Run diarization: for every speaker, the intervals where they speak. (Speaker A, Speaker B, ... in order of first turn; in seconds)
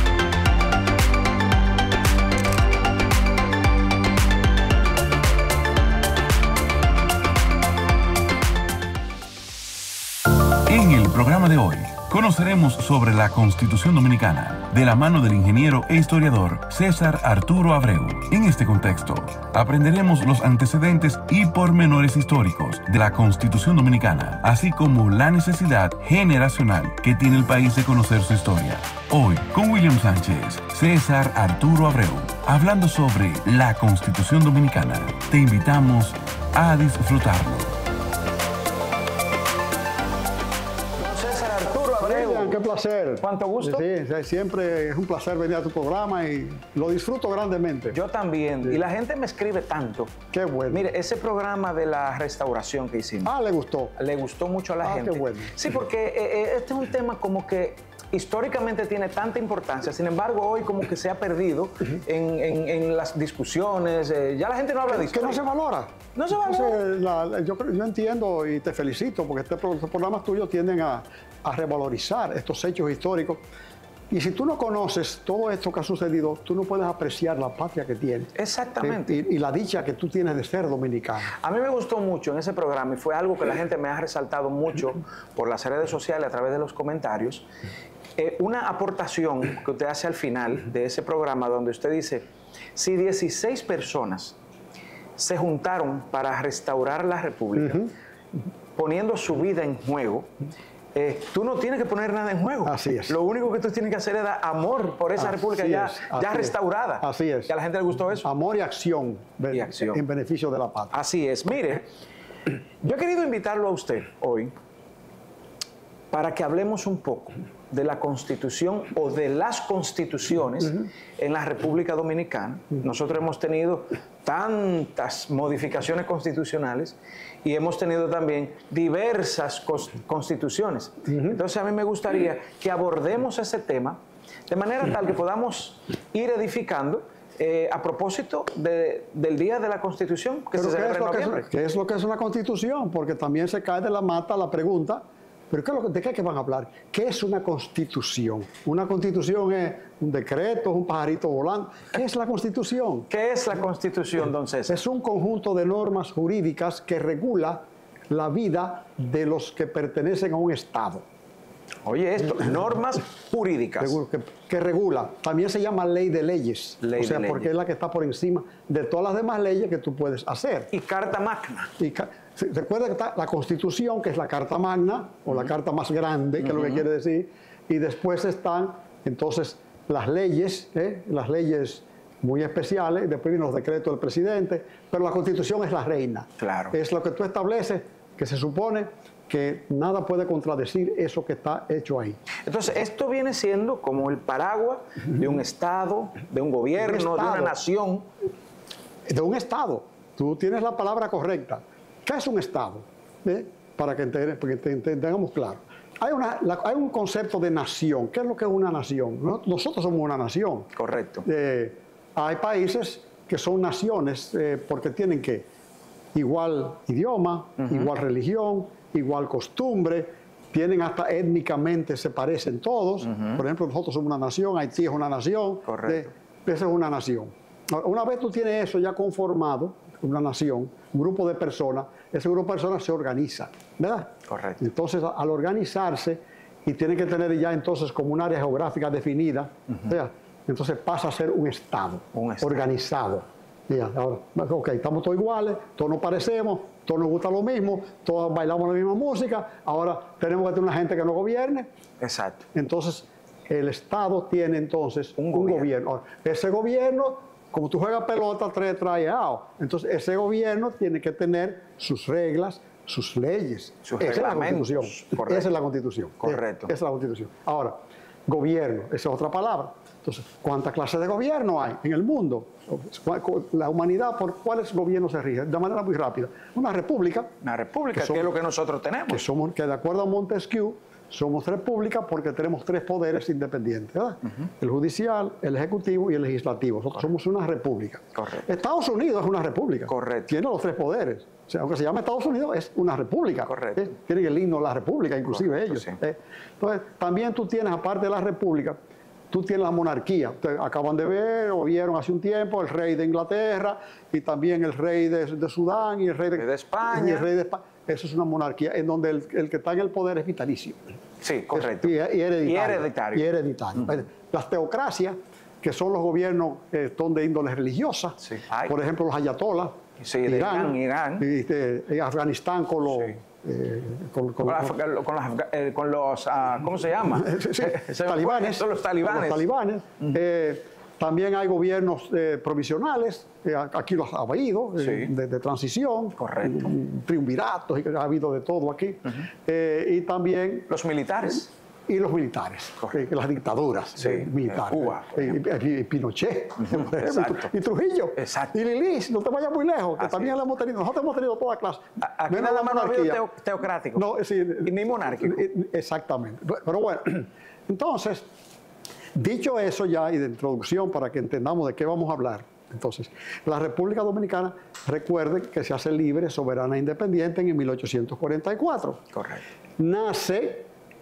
Speaker A: 10.5-37.7
Speaker B: 41.0-42.6, 43.2-43.9, 47.9-50.2, 50.7-53.3, 54.0-65.4, 66.2-66.8, 78.3-79.2, 81.4-87.5, 88.2-94.4, 95.2-97.9, 98.8-100.3, 101.0-108.3, 109.5-110.0, 110.9-111.9, 112.8-114.5, 116.1-141.4, 153.1-154.8, 161.8-164.0, 166.8-167.5, 170.7-171.7, 176.5-176.8, 186.4-186.8, 192.5-198.1, 210.8-211.3, 217.6-217.9, 223.1-223.4, 225.7-226.1, 234.3-234.6, 242.1-242.7, 252.0-252.4, 255.2-255.7, 263.8-265.5, 266.2-266.7, 277.4-279.2, 288.2-288.4, 289.9-290.3, 293.5-293.9, 295.5-296.0, 306.4-307.3, 311.2-313.3, 318.2-318.8, 320.0-321.3, 324.4-329.5, 334.8-335.1, 336.2-336.7, 340.7-341.5, 344.0-345.4, 346.6-347.5, 348.2-348.6, 350.0-350.4, 352.0-354.1, 354.6-355.5, 369.1-369.4
Speaker C: 42.0-48.0, 50.3-50.8, 53.2-53.9, 54.8-55.6, 64.9-73.4, 74.1-81.3, 97.6-97.9, 102.7-103.2, 105.2-107.5, 108.2-110.9, 131.1-131.4, 140.6-153.1, 154.7-161.1, 163.8-170.7, 171.8-192.2, 196.8-197.5, 199.1-210.7, 211.2-215.5, 216.1-251.7, 252.5-277.3, 277.9-278.3, 279.1-298.8, 299.3-310.9, 311.5-324.8, 327.1-340.7, 341.9-353.2, 353.9-358.3, 359.1-369.0, 369.8-370.7